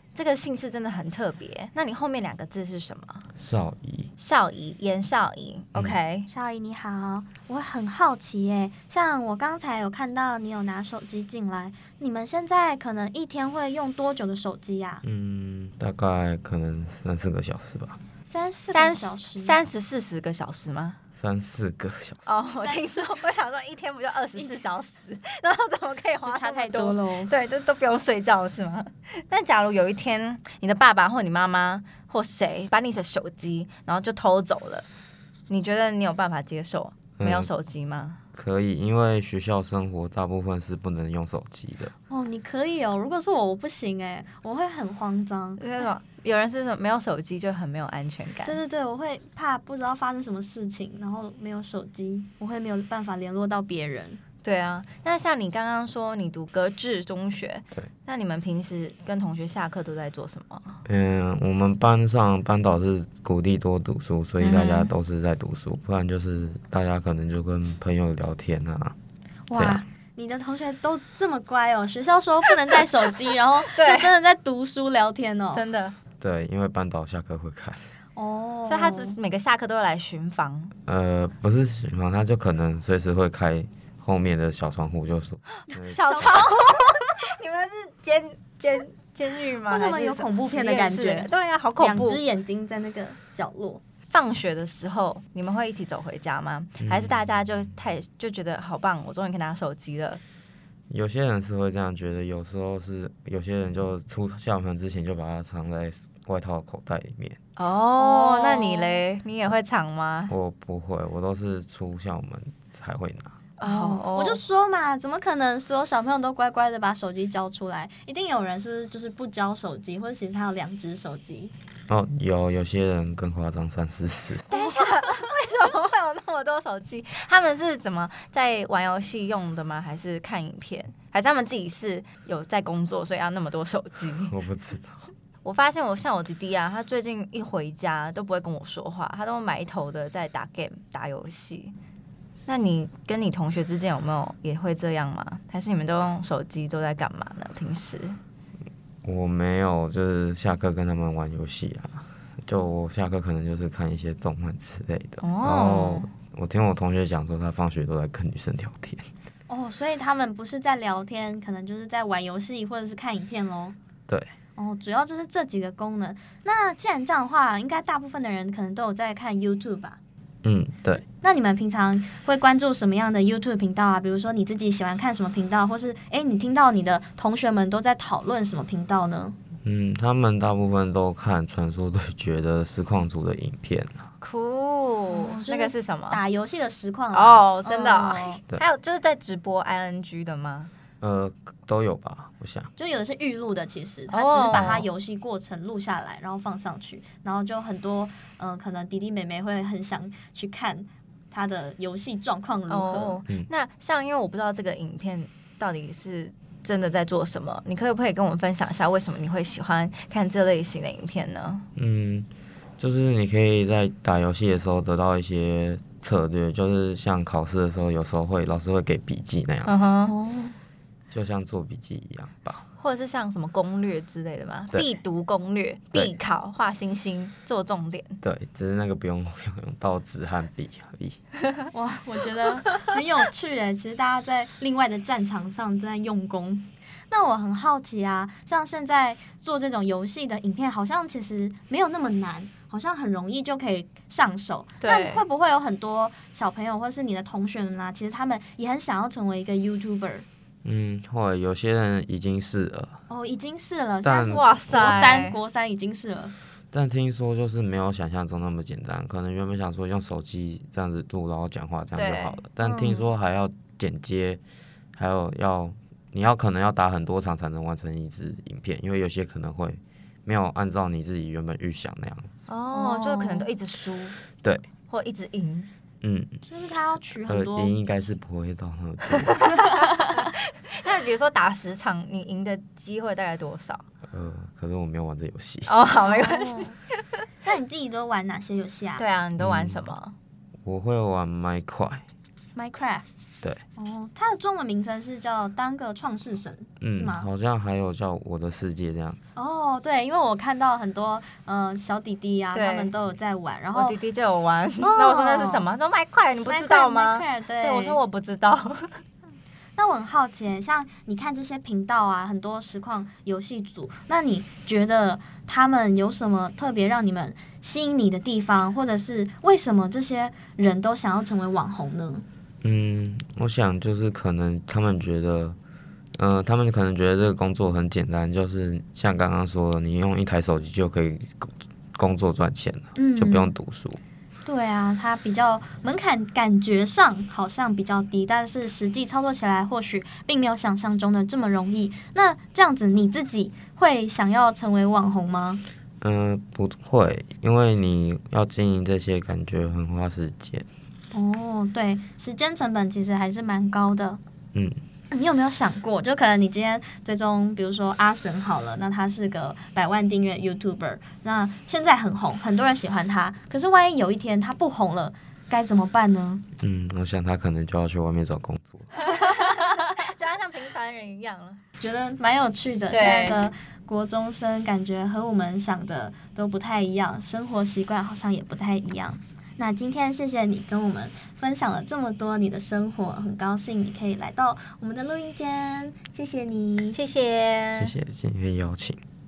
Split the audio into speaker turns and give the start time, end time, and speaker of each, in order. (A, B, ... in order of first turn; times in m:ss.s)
0:00.1-0:03.2 A
0:03.4-0:04.1 B
0:04.2-0:06.3 A
0:06.3-0:15.0 C
0:15.0-0:18.0 B
0:18.3-0:19.6 C
0:18.7-0:21.0 A
0:21.2-0:22.3 B
0:22.2-0:34.9 A
0:24.4-0:24.6 C
0:26.2-0:27.3 C
0:35.5-0:38.2 A
0:37.2-0:37.5 B
0:38.3-0:41.9 B
0:42.1-0:45.6 C
0:45.6-0:48.6 A
0:48.4-0:54.2 C
0:54.4-1:00.8 A
1:00.8-1:08.9 B
1:04.4-1:04.9 A
1:04.4-1:04.8 C
1:09.5-1:15.6 C
1:09.5-1:09.8 B
1:13.6-1:14.1 A
1:15.5-1:16.0 A
1:16.2-1:17.9 B
1:18.2-1:19.2 C
1:18.7-1:20.7 A
1:20.8-1:26.4 B
1:25.7-1:32.2 A
1:26.0-1:26.5 C
1:29.7-1:33.8 C
1:34.1-1:40.2 A
1:36.8-1:37.1 B
1:40.9-1:47.4 B
1:47.6-1:50.3 A
1:48.0-1:49.0 C
1:50.3-1:53.4 B
1:53.6-1:54.4 A
1:53.6-2:01.5 C
2:01.9-2:04.5 B
2:04.5-2:14.3 A
2:14.3-2:15.0 B
2:15.4-2:21.8 A
2:22.5-2:28.2 A
2:29.0-2:39.1 B
2:35.2-2:36.1 A
2:39.5-2:43.8 C
2:44.6-2:50.0 C
2:50.4-2:51.0 B
2:51.2-2:59.4 C
2:59.6-3:04.0 B
3:04.2-3:06.2 A
3:05.1-3:08.4 C
3:07.1-3:10.7 A
3:11.0-3:12.7 B
3:12.8-3:23.2 C
3:14.1-3:14.9 A
3:22.7-3:31.6 A
3:31.8-3:32.3 B
3:32.8-3:39.9 B
3:39.6-3:40.1 A
3:40.0-3:40.6 C
3:41.1-3:42.6 B
3:42.8-3:48.2 A
3:48.2-3:51.2 B
3:51.7-4:10.2 C
4:04.8-4:05.2 A
4:10.6-4:13.0 B
4:13.1-4:16.3 C
4:14.0-4:14.4 B
4:14.2-4:15.4 A
4:16.7-4:24.4 B
4:21.9-4:22.4 A
4:22.6-4:23.1 C
4:24.9-4:32.3 B
4:32.5-4:34.2 A
4:32.7-4:33.5 C
4:34.9-4:35.7 A
4:36.0-4:36.4 B
4:36.4-4:37.7 C
4:37.3-4:39.6 B
4:39.6-4:43.8 A
4:44.1-4:45.7 B
4:45.7-4:47.2 A
4:46.0-4:46.8 C
4:47.4-4:49.0 C
4:49.0-4:50.2 A
4:49.4-4:49.8 B
4:50.6-4:52.0 B
4:52.6-4:53.1 C
4:53.8-4:57.3 C
4:56.8-4:59.2 B
4:59.4-5:04.0 C
5:02.5-5:02.9 A
5:03.7-5:09.0 A
5:04.8-5:05.6 C
5:06.4-5:08.0 C
5:09.8-5:22.2 C
5:22.6-5:25.6 B
5:26.2-5:34.0 B
5:33.0-5:33.5 C
5:34.4-5:45.6 C
5:46.0-5:50.7 B
5:51.1-5:54.2 C
5:55.1-6:06.4 C
6:06.6-6:08.9 B
6:09.0-6:11.6 A
6:09.2-6:09.8 C
6:11.8-6:27.0 C
6:12.9-6:13.5 A
6:26.9-6:27.9 A
6:27.8-6:29.0 B